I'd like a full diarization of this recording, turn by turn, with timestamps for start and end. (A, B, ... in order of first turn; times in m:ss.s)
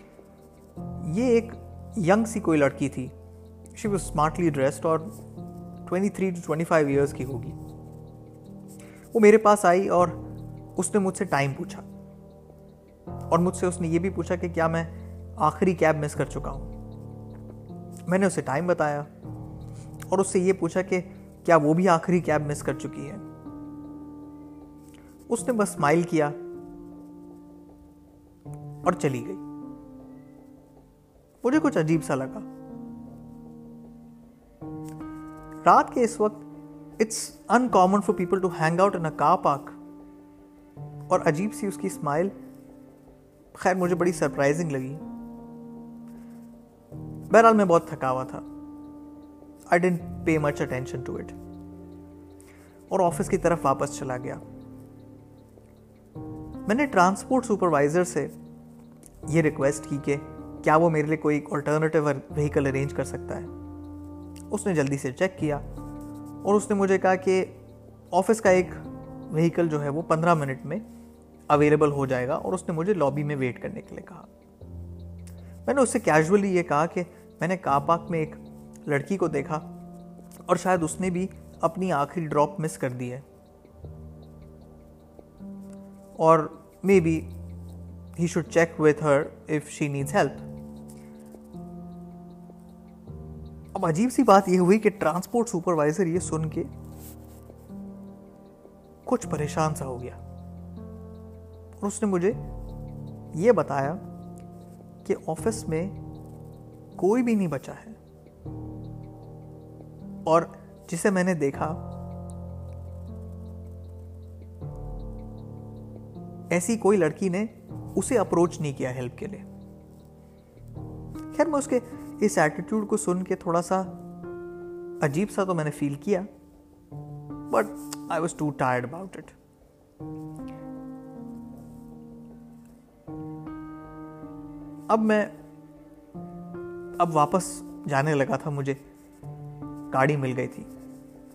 0:01.0-0:03.1 A
0:03.7-0:05.1 A
0:05.8-0:07.6 A
0:09.1-0:10.2 A
0:10.8-0:11.8 A
0:13.3-0:16.7 A
0:18.1-0:19.1 A
0:20.1-0:23.2 A
0:25.3-0:26.4 A
0:28.8-0:29.4 A
0:31.4-0:32.4 A
0:35.6-0:36.5 A
0:37.0-0:39.8 A
0:41.1-0:42.3 A
0:43.5-0:45.0 A
0:47.3-0:48.4 A
0:49.7-0:51.3 A
0:52.9-0:54.4 A
0:56.6-0:58.3 A
0:59.3-1:03.5 A
1:04.5-1:05.6 A
1:06.4-1:07.6 A
1:08.1-1:10.8 A
1:11.5-1:14.3 A
1:15.6-1:19.6 A
1:20.5-1:23.2 A
1:26.2-1:27.3 A
1:28.1-1:30.4 A
1:33.7-1:36.7 A
1:39.0-1:40.2 A
1:41.8-1:42.4 A
1:43.3-1:44.0 A
1:45.0-1:46.0 A
1:47.0-1:48.0 A
1:50.2-1:51.8 A
1:56.5-1:59.4 A
2:01.3-2:04.0 A
2:05.0-2:06.3 A
2:07.5-2:09.3 A
2:14.9-2:15.3 A
2:17.0-2:18.8 A
2:19.9-2:20.7 A